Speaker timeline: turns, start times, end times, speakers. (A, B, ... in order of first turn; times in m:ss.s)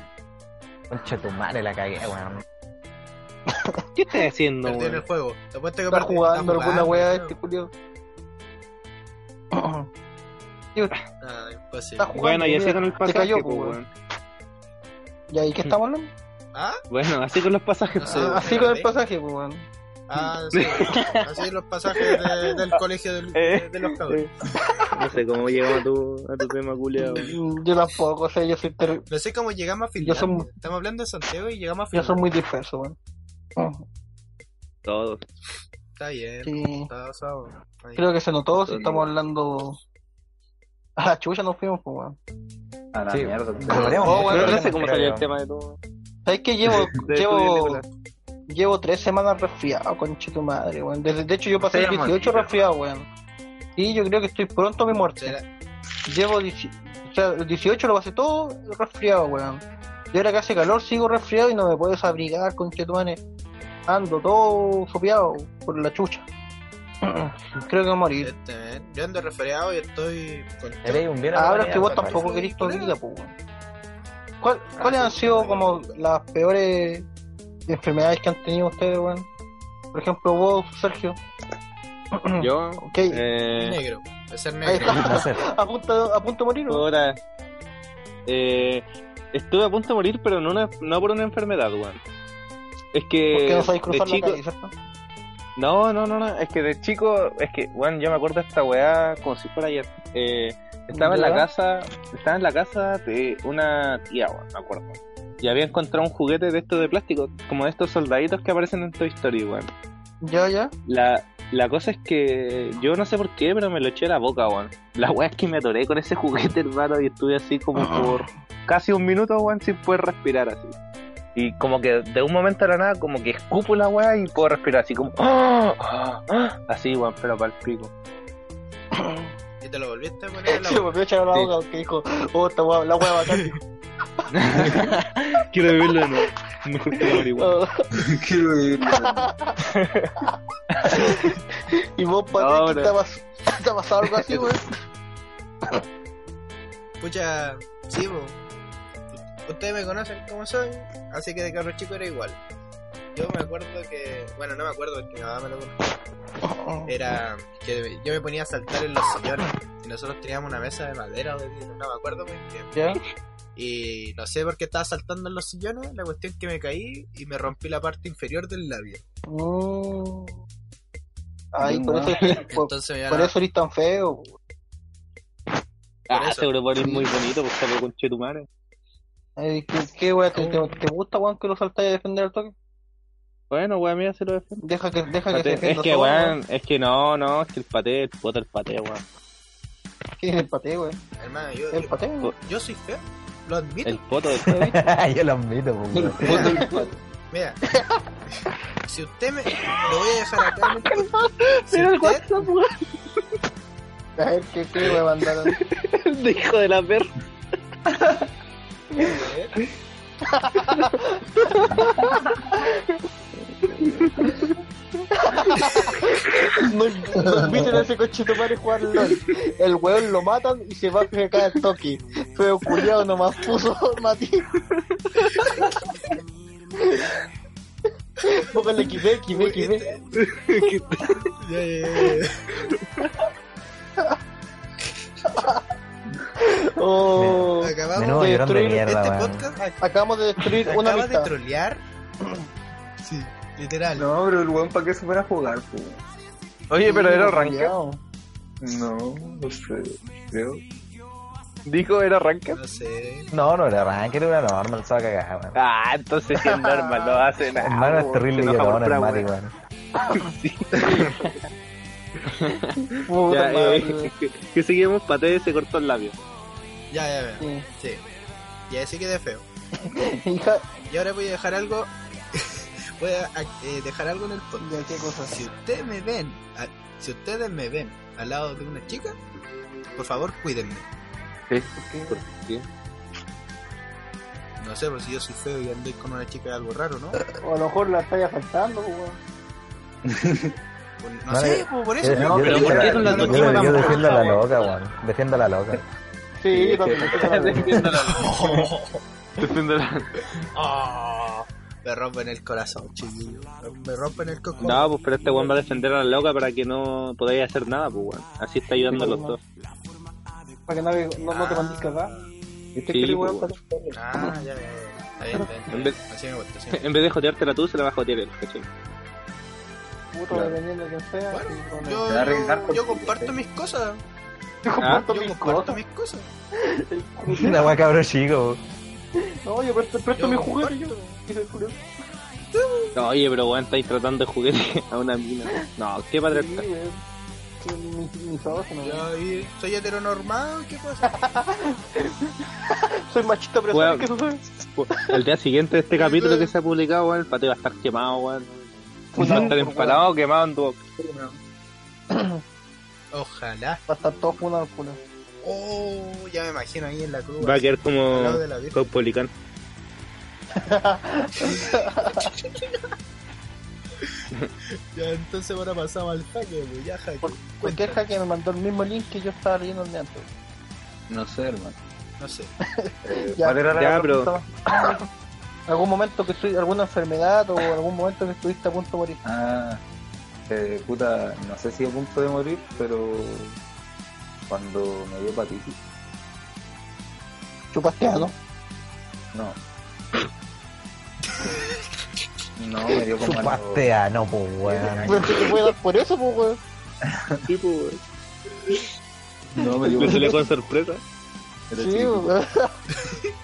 0:00.9-0:02.4 A
0:03.5-0:04.2 B
0:04.0-0:05.0 C
0:04.6-0:07.4 D
0:05.9-0:07.7 B
0:09.5-0:09.9 B
0:11.2-0:12.1 D
0:12.0-0:13.8 B
0:12.1-0:13.9 C
0:15.3-0:16.1 B
0:16.5-0:16.8 D
0:16.9-0:18.5 C
0:18.0-0:18.9 D
0:18.1-0:19.6 B
0:20.1-0:24.3 D
0:20.5-0:22.8 C
0:23.3-0:24.3 C
0:24.9-0:27.3 C
0:27.0-0:29.0 B
0:29.1-0:32.2 D
0:30.0-0:30.5 B
0:31.9-0:33.0 B
0:33.6-0:33.8 B
0:34.8-0:35.2 C
0:36.0-0:38.1 D
0:36.4-0:36.9 B
0:38.0-0:39.8 B
0:38.6-0:39.1 E
0:41.0-0:42.2 B
0:42.9-0:44.6 E
0:43.1-0:45.2 A
0:43.8-0:44.6 B
0:44.0-0:45.8 C
0:46.2-0:47.8 B
0:47.0-0:47.8 C
0:48.5-0:53.1 B
0:51.7-0:52.1 E
0:53.8-0:55.4 B
0:55.2-0:55.5 D
0:56.0-1:03.2 B
1:03.9-1:06.2 B
1:07.0-1:08.3 B
1:08.2-1:13.0 D
1:10.8-1:12.3 A
1:11.3-1:13.3 B
1:14.4-1:17.0 B
1:14.8-1:16.0 D
1:17.7-1:19.3 B
1:19.9-1:21.2 B
1:22.1-1:23.2 B
1:22.4-1:23.8 C
1:23.6-1:25.2 D
1:24.6-1:26.8 B
1:24.8-1:25.4 A
1:26.7-1:27.2 C
1:28.2-1:32.0 C
1:32.9-1:34.4 C
1:33.3-1:34.7 B
1:35.6-1:49.7 C
1:40.9-1:41.5 B
1:50.2-1:50.7 B
1:50.9-2:00.7 C
1:57.8-1:58.1 B
2:01.3-2:07.9 C
2:08.9-2:09.3 B
2:09.6-2:10.9 D
2:10.5-2:13.6 B
2:13.3-2:13.6 D
2:14.2-2:15.0 B
2:14.3-2:17.6 C
2:16.9-2:18.0 B
2:18.0-2:19.3 E
2:18.9-2:19.6 B
2:19.6-2:20.1 C
2:20.2-2:24.6 B
2:20.7-2:21.1 C
2:22.3-2:22.9 C
2:27.0-2:28.4 D
2:29.1-2:32.4 D
2:33.1-2:35.9 D
2:36.4-2:36.9 B
2:36.8-2:42.7 D
2:42.7-2:43.0 B
2:43.6-2:49.0 D
2:49.3-2:50.3 B
2:51.5-2:54.3 B
2:51.6-2:52.4 E
2:52.5-2:53.3 D
2:56.1-2:56.5 D
2:56.1-2:58.5 C
2:59.4-3:02.5 B
3:03.5-3:04.6 C
3:04.6-3:06.4 B
3:05.3-3:09.0 C
3:10.2-3:11.0 B
3:11.2-3:14.0 D
3:11.7-3:12.3 B
3:13.8-3:14.7 C
3:14.4-3:14.8 B
3:14.5-3:16.5 A
3:15.9-3:17.0 E
3:16.3-3:16.8 B
3:17.3-3:17.6 D
3:17.7-3:18.0 B
3:18.8-3:21.1 D
3:20.8-3:23.2 C
3:21.7-3:22.3 D
3:24.2-3:25.6 B
3:24.8-3:27.1 C
3:29.0-3:29.5 D
3:30.3-3:32.8 B
3:33.8-3:34.0 E
3:33.9-3:34.5 C
3:35.1-3:44.5 B
3:35.5-3:36.0 C
3:37.2-3:37.8 E
3:44.7-3:45.3 C
3:45.3-3:45.8 B
3:46.8-3:47.2 B
3:48.2-3:49.9 B
3:49.3-3:50.1 D
3:50.2-3:51.3 C
3:51.4-3:52.5 D
3:52.7-3:53.1 C
3:55.2-3:55.6 B
3:56.4-3:58.9 B
3:57.2-3:59.5 A
3:57.6-3:59.8 D
3:59.8-4:01.3 B
4:00.6-4:01.8 D
4:03.0-4:04.1 D
4:03.9-4:06.0 E
4:06.7-4:07.7 C
4:06.8-4:08.0 B
4:08.6-4:10.6 E
4:11.6-4:12.6 C
4:12.5-4:13.3 D
4:13.3-4:15.6 A
4:15.6-4:19.3 C
4:16.4-4:17.2 B
4:17.5-4:19.5 A
4:20.1-4:21.3 C
4:20.8-4:21.3 B
4:22.2-4:26.2 C
4:23.0-4:24.1 B
4:26.9-4:28.0 D
4:27.4-4:27.7 B
4:28.7-4:29.4 D
4:29.8-4:30.7 B
4:30.9-4:39.2 D
4:34.6-4:35.4 B
4:39.9-4:40.8 D
4:41.7-4:42.2 B
4:42.2-4:42.6 C
4:44.6-4:47.2 D
4:47.4-4:49.2 B
4:50.1-4:50.5 E
4:51.0-4:54.4 D
4:51.3-4:55.8 A
4:52.1-4:53.6 E
4:52.3-4:54.4 C
4:52.9-4:54.4 B
4:56.4-4:58.1 B
4:56.5-4:57.9 E
4:57.1-4:58.6 C
4:58.0-4:59.0 D
4:59.4-5:00.2 C
5:00.3-5:04.9 D
5:04.6-5:09.4 C
5:05.2-5:05.6 B
5:08.8-5:09.4 B
5:10.7-5:12.1 B
5:11.2-5:12.3 D
5:12.8-5:13.9 E
5:12.8-5:13.6 B
5:12.9-5:13.5 C
5:13.9-5:16.9 D
5:15.7-5:16.0 C
5:16.7-5:18.7 C
5:20.1-5:22.1 B
5:20.3-5:20.6 E
5:21.3-5:24.0 D
5:22.0-5:23.4 E
5:24.6-5:25.8 B
5:24.8-5:25.0 C
5:25.0-5:26.3 D
5:26.6-5:27.7 B
5:27.3-5:28.6 A
5:29.4-5:31.8 B
5:30.2-5:31.0 D
5:32.5-5:32.9 D
5:33.0-5:36.6 C
5:36.3-5:37.0 B
5:37.6-5:39.1 B
5:38.8-5:41.1 D
5:41.0-5:45.2 B
5:43.7-5:44.1 C
5:44.8-5:48.5 C
5:45.9-5:46.5 D
5:49.1-5:50.0 B
5:49.2-5:50.8 C
5:51.0-5:51.3 B
5:52.1-5:52.4 B
5:53.1-5:53.8 D
5:53.9-5:55.0 B
5:55.4-5:58.8 D
5:57.4-5:59.3 C
6:00.6-6:02.3 B
6:01.4-6:02.8 D
6:04.0-6:04.2 D
6:04.9-6:08.0 D
6:07.2-6:10.3 B
6:11.1-6:11.8 E
6:12.2-6:12.5 D
6:12.7-6:15.0 B
6:13.0-6:14.3 E
6:13.8-6:14.3 C
6:15.7-6:19.2 B
6:19.2-6:19.8 E
6:20.5-6:23.6 E
6:24.5-6:25.8 E
6:27.7-6:28.3 B
6:32.6-6:33.9 E
6:33.2-6:35.4 A
6:34.8-6:35.2 D
6:35.0-6:36.6 B
6:37.1-6:37.4 E
6:37.4-6:38.0 C
6:39.5-6:40.4 E
6:39.6-6:40.4 B
6:39.9-6:41.0 C
6:41.7-6:42.8 B
6:41.8-6:42.3 C
6:42.9-6:43.3 D